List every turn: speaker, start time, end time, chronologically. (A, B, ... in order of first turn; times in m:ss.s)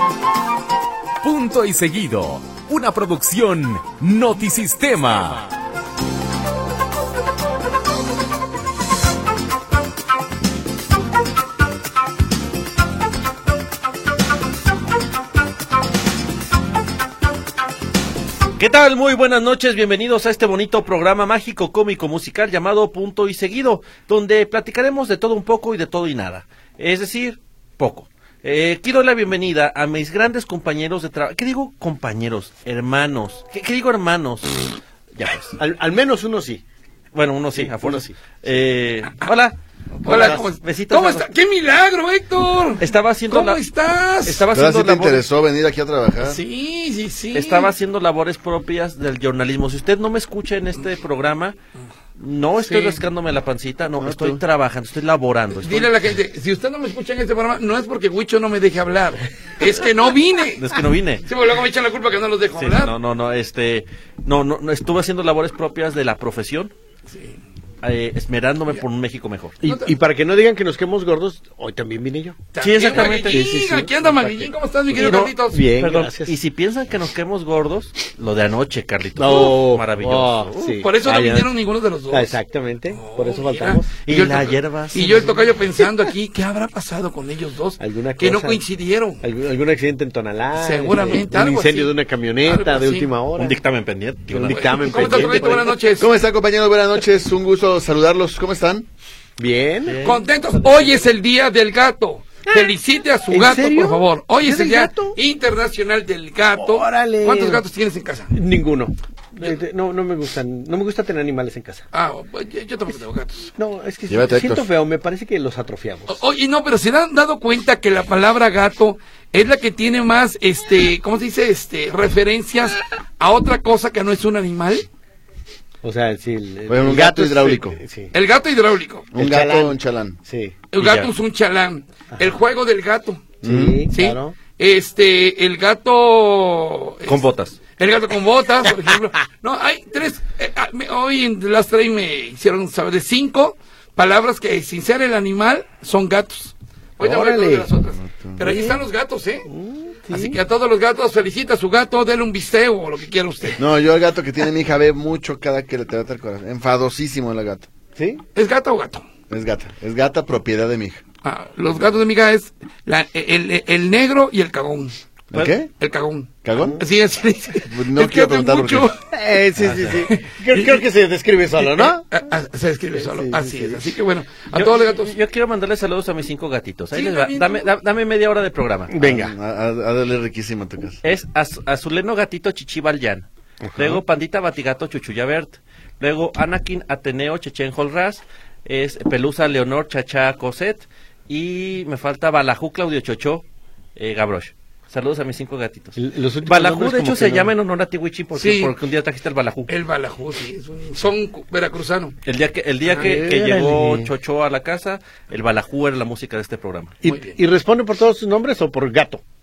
0:01.2-0:05.5 A
0:18.6-0:35.6 B
0:35.6-0:36.6 C
0:37.1-0:41.3 B
0:37.5-0:38.2 C
0:40.0-0:44.5 D
0:40.1-0:40.4 C
0:42.8-0:43.6 B
0:44.2-0:45.3 B
0:44.5-0:46.4 E
0:46.2-0:47.7 D
0:47.3-0:51.6 B
0:52.2-0:56.0 B
0:52.6-0:53.0 D
0:54.0-0:54.4 E
0:55.6-1:00.7 D
1:00.6-1:01.2 B
1:01.3-1:02.9 D
1:02.6-1:06.7 B
1:07.1-1:07.4 D
1:07.8-1:09.6 B
1:09.6-1:16.4 C
1:09.6-1:10.0 D
1:12.5-1:15.7 D
1:12.6-1:13.6 B
1:14.9-1:20.8 B
1:19.2-1:21.6 C
1:20.8-1:22.4 D
1:22.1-1:24.0 C
1:22.9-1:29.2 D
1:24.0-1:25.3 B
1:27.8-1:28.6 C
1:29.2-1:33.6 C
1:30.5-1:33.1 D
1:33.4-1:35.5 B
1:34.3-1:35.8 C
1:34.4-1:36.1 D
1:36.0-1:38.9 E
1:39.4-1:41.0 C
1:39.8-1:40.2 B
1:40.0-1:48.3 D
1:43.3-1:45.2 C
1:46.5-1:47.6 C
1:48.3-1:51.9 C
1:51.9-1:53.5 D
1:53.6-1:56.2 C
1:54.1-1:54.7 E
1:56.1-2:04.9 D
2:05.8-2:08.1 C
2:06.7-2:07.8 E
2:08.1-2:09.1 D
2:09.1-2:10.2 E
2:09.2-2:10.6 C
2:10.7-2:13.4 D
2:10.8-2:11.1 B
2:13.4-2:13.9 E
2:13.4-2:14.4 C
2:13.9-2:29.5 D
2:17.1-2:17.6 B
2:27.0-2:27.7 C
2:28.0-2:28.5 E
2:28.4-2:28.8 C
2:29.5-2:30.4 C
2:30.1-2:33.6 D
2:33.6-2:37.7 E
2:38.0-2:38.2 C
2:38.4-2:39.0 D
2:39.3-2:41.0 E
2:41.2-2:45.0 D
2:45.3-2:45.7 E
2:45.8-2:49.0 D
2:46.4-2:46.8 E
2:47.7-2:48.9 E
2:49.1-2:52.1 C
2:49.6-2:50.1 B
2:50.1-2:50.9 D
2:51.6-2:55.2 D
2:52.9-2:53.8 C
2:54.5-2:59.0 B
2:56.9-2:57.7 D
2:58.9-2:59.3 C
2:59.0-3:01.0 E
3:01.0-3:13.4 B
3:03.6-3:04.0 C
3:14.0-3:19.7 B
3:16.0-3:17.5 C
3:18.4-3:18.8 D
3:19.7-3:22.1 D
3:22.2-3:27.0 B
3:22.9-3:24.1 C
3:27.0-3:29.2 C
3:27.0-3:27.4 D